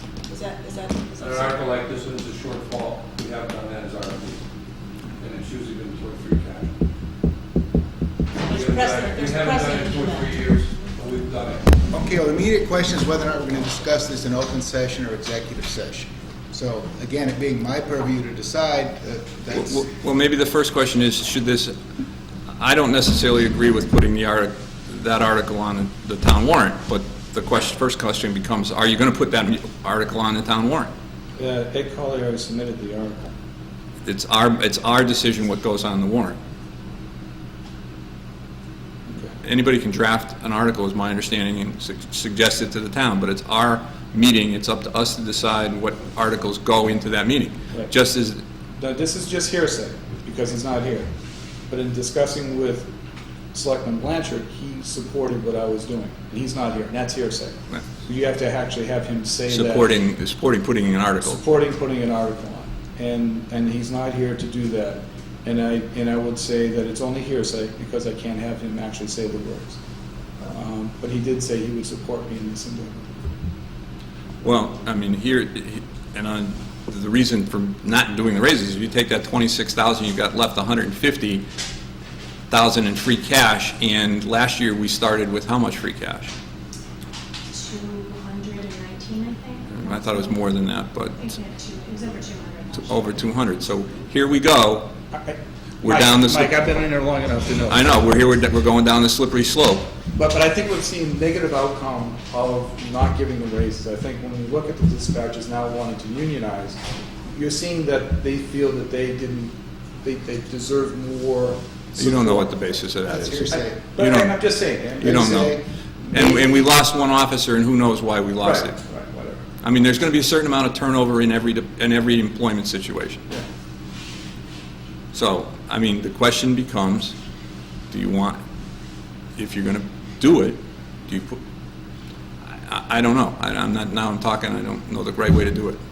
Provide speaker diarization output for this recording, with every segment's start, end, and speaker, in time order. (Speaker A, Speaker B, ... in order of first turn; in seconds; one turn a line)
Speaker A: 0.3-1.6
Speaker B: 1.2-4.4
Speaker B: 5.2-6.7
Speaker A: 8.4-10.4
Speaker B: 8.4-11.8
Speaker C: 11.9-19.9
Speaker D: 19.6-21.7
Speaker D: 22.6-30.9
Speaker E: 31.4-33.3
Speaker D: 34.0-36.4
Speaker E: 39.1-39.4
Speaker D: 39.4-48.4
Speaker E: 48.8-51.1
Speaker E: 51.7-52.9
Speaker E: 53.5-60.0
Speaker D: 59.5-61.4
Speaker E: 61.2-69.8
Speaker E: 70.4-73.2
Speaker D: 74.4-81.5
Speaker D: 82.5-86.3
Speaker F: 87.5-90.3
Speaker D: 89.7-91.2
Speaker F: 91.2-93.2
Speaker D: 92.8-94.9
Speaker E: 95.1-97.9
Speaker D: 95.8-96.7
Speaker D: 97.7-99.9
Speaker E: 100.1-112.7
Speaker D: 112.0-115.6
Speaker C: 113.0-113.9
Speaker E: 113.2-115.3
Speaker C: 115.0-115.6
Speaker E: 116.1-116.6
Speaker D: 116.1-118.8
Speaker E: 118.4-119.4
Speaker D: 119.6-123.3
Speaker D: 125.1-127.2
Speaker D: 127.9-128.4
Speaker D: 129.4-131.4
Speaker D: 132.5-135.8